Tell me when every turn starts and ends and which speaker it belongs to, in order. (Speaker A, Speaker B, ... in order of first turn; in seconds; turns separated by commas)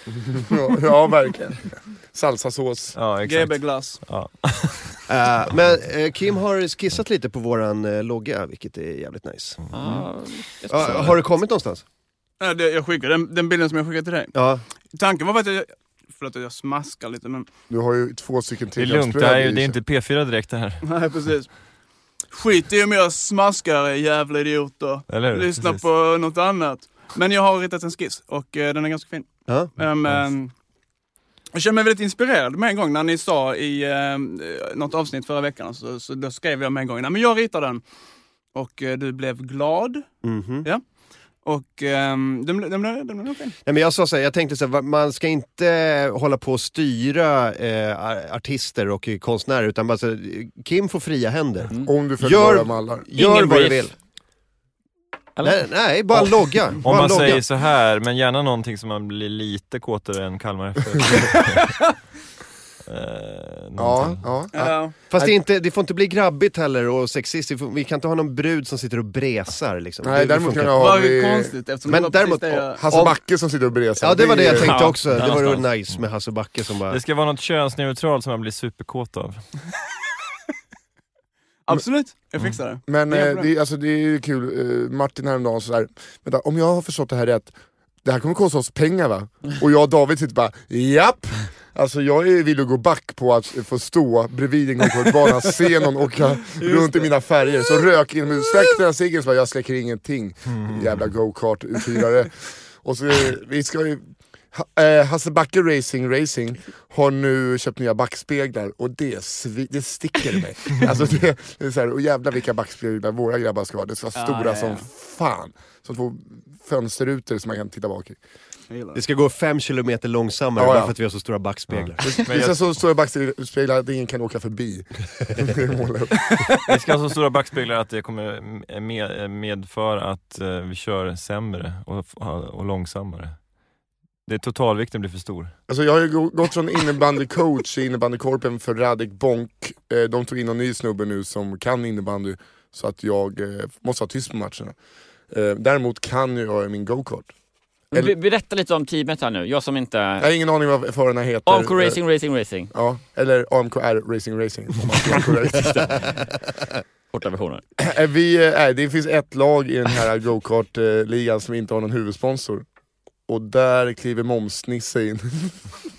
Speaker A: 0.3-3.0, Speaker B: 2.9-5.0, Speaker C: 3.2-4.0, Speaker D: 5.1-9.7, Speaker E: 9.7-11.3, Speaker B: 9.7-10.0, Speaker D: 10.7-11.8, Speaker C: 12.4-14.3, Speaker D: 14.3-14.6, Speaker C: 14.9-17.5, Speaker A: 17.7-19.8, Speaker B: 18.8-20.9, Speaker C: 20.8-21.5, Speaker C: 22.3-30.5, Speaker B: 25.1-25.9, Speaker C: 31.5-37.8, Speaker C: 38.5-40.1, Speaker D: 40.2-40.7, Speaker C: 41.4-43.6, Speaker D: 43.6-53.9, Speaker A: 51.9-53.1, Speaker E: 53.1-53.9, Speaker D: 55.4-57.4, Speaker B: 56.8-61.7, Speaker B: 62.9-64.2, Speaker A: 63.8-65.3, Speaker C: 64.5-64.9, Speaker D: 65.1-70.8, Speaker A: 70.0-71.5, Speaker C: 70.8-72.8, Speaker D: 71.8-73.2, Speaker A: 72.8-74.9, Speaker D: 74.0-77.0, Speaker E: 74.5-75.7, Speaker B: 76.9-79.4, Speaker C: 81.7-83.5, Speaker A: 82.9-118.2, Speaker E: 96.7-97.0, Speaker C: 114.2-114.9, Speaker C: 118.7-119.0, Speaker D: 118.9-122.0, Speaker A: 120.6-120.9, Speaker B: 121.7-122.7, Speaker A: 122.0-126.5, Speaker B: 126.7-133.4, Speaker B: 134.3-135.5, Speaker A: 135.7-144.8, Speaker A: 145.3-147.3, Speaker E: 147.9-150.3, Speaker A: 150.2-152.0, Speaker E: 151.5-152.7, Speaker A: 152.7-156.1, Speaker E: 155.6-156.1, Speaker E: 157.1-157.6, Speaker A: 157.8-162.7, Speaker A: 163.3-165.6